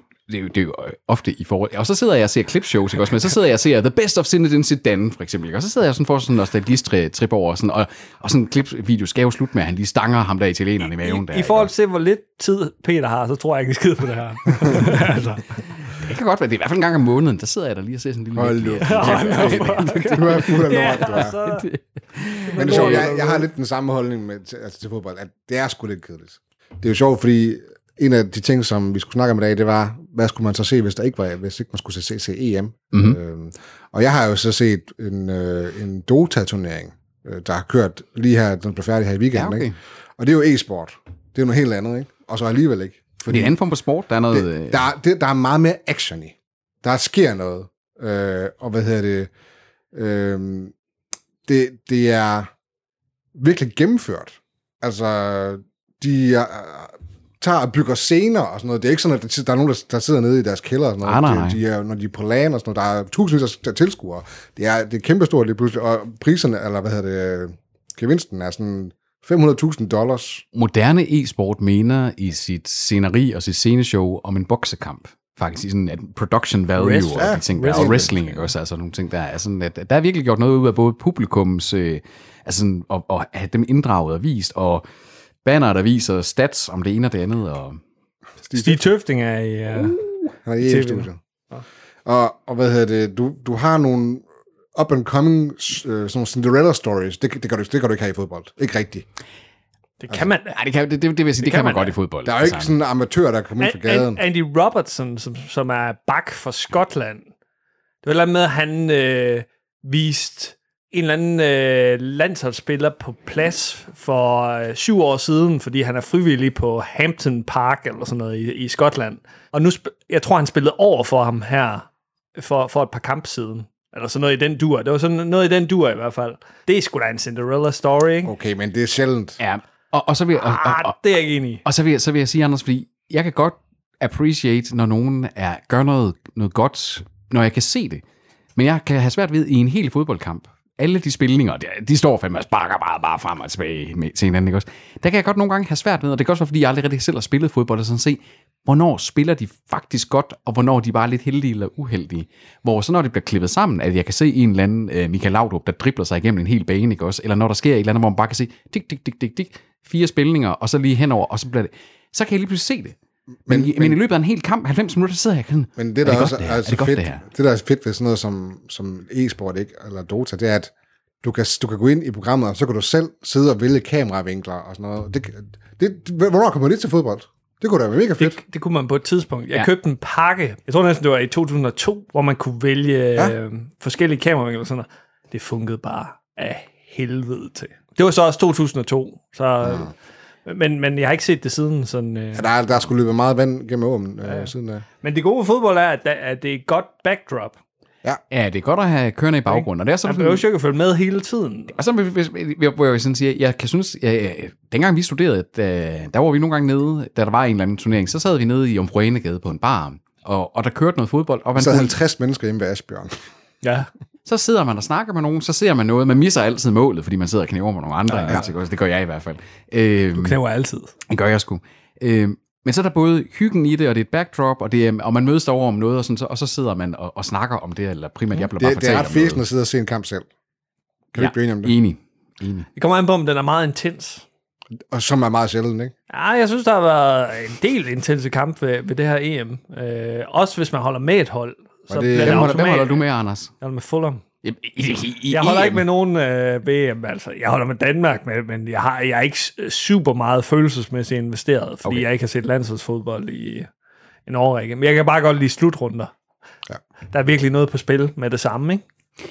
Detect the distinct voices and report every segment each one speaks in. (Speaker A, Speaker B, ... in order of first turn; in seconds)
Speaker A: 0.3-11.7, 15.9-23.1, 32.9-33.2, 39.3-39.8, 43.3-44.8, 61.0-61.6, 70.5-84.8, 85.4-87.8, 100.5-102.8, 129.4-131.0, 131.7-138.0, 138.6-163.0, 163.5-167.2, 198.3-200.4, 201.8-211.9, 214.3-220.4, 221.1-229.4, 231.2-232.7, 242.2-243.5, 244.4-245.8
Speaker B: 10.9-15.5, 18.8-21.7, 22.5-23.5, 76.8-78.5, 88.5-90.0, 90.6-91.6, 100.0-100.6, 101.4-101.9, 103.6-107.3, 108.0-128.3, 130.4-131.6, 178.2-189.9, 190.5-192.5, 194.2-194.5, 195.0-197.6, 199.5-201.8, 213.6-213.9, 218.1-218.4, 220.2-220.9, 232.8-234.2, 236.1-243.0, 243.6-244.2, 245.3-253.7, 254.3-256.1, 257.1-258.8
Speaker C: 18.4-21.4, 22.6-39.7, 40.2-43.5, 44.3-49.3, 49.9-50.7, 51.5-52.5, 53.4-70.5, 77.1-78.1, 88.5-88.8, 90.5-91.2, 92.0-99.1, 102.2-104.2, 128.2-129.4, 163.5-164.0, 165.8-170.7, 171.2-178.4, 192.3-194.8, 211.6-213.2, 228.6-230.3, 231.1-231.8, 234.9-235.9, 241.9-242.6